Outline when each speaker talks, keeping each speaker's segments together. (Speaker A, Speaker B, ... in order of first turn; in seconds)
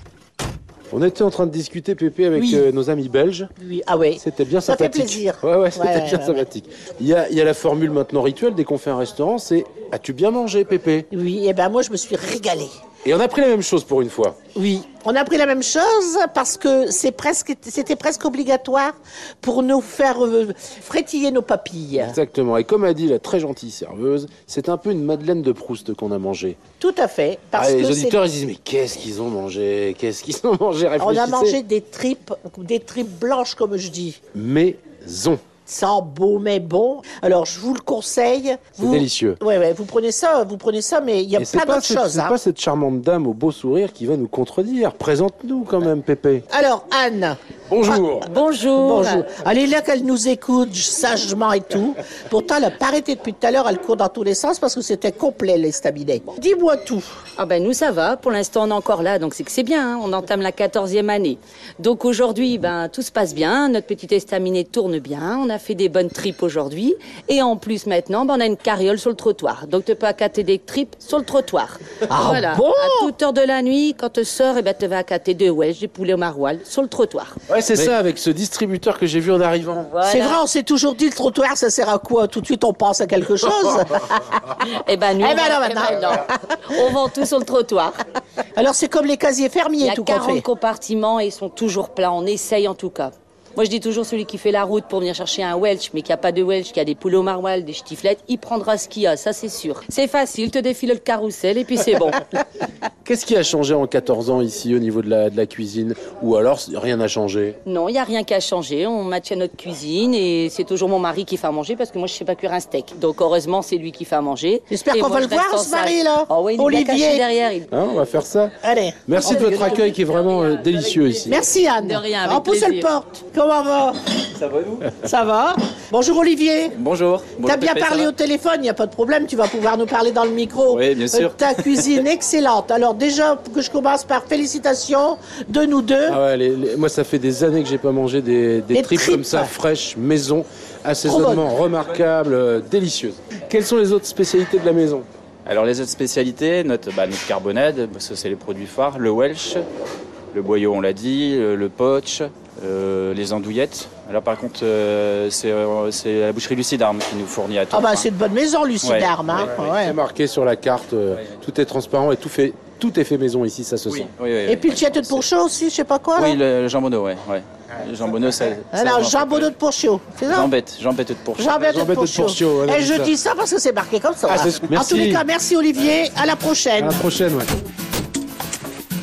Speaker A: 0.9-3.5, 4.2-11.1, 13.0-14.4, 22.0-26.6, 27.6-31.6, 34.3-35.5, 38.8-39.4, 41.4-46.5, 47.7-48.3, 77.5-80.0, 103.0-107.6, 117.7-118.5, 119.1-121.4, 136.1-145.1, 159.7-164.1, 171.6-173.1, 174.3-175.2, 176.8-177.6
Speaker B: 2.3-2.7, 3.6-6.5, 11.1-12.7, 14.6-22.2, 26.8-28.2, 31.0-34.2, 35.6-42.4, 46.5-48.0, 48.8-57.1, 72.1-73.1, 80.1-84.6, 85.2-86.2, 88.5-90.4, 114.7-117.2, 118.6-119.8, 121.3-124.0, 124.9-126.8, 127.4-136.2, 138.7-139.5, 141.0-141.5, 157.7-160.0, 164.4-166.4, 168.7-170.5, 171.4-177.0
Speaker C: 48.2-49.2, 57.4-77.4, 79.9-80.4, 84.7-88.0, 89.8-102.4, 107.7-117.7, 119.2-119.7, 121.8-122.9
Speaker D: 124.4-124.8, 126.8-128.1, 130.7-132.0, 145.5-149.7, 150.3-158.1, 158.8-159.1, 163.9-165.2, 166.2-169.5, 170.3-171.6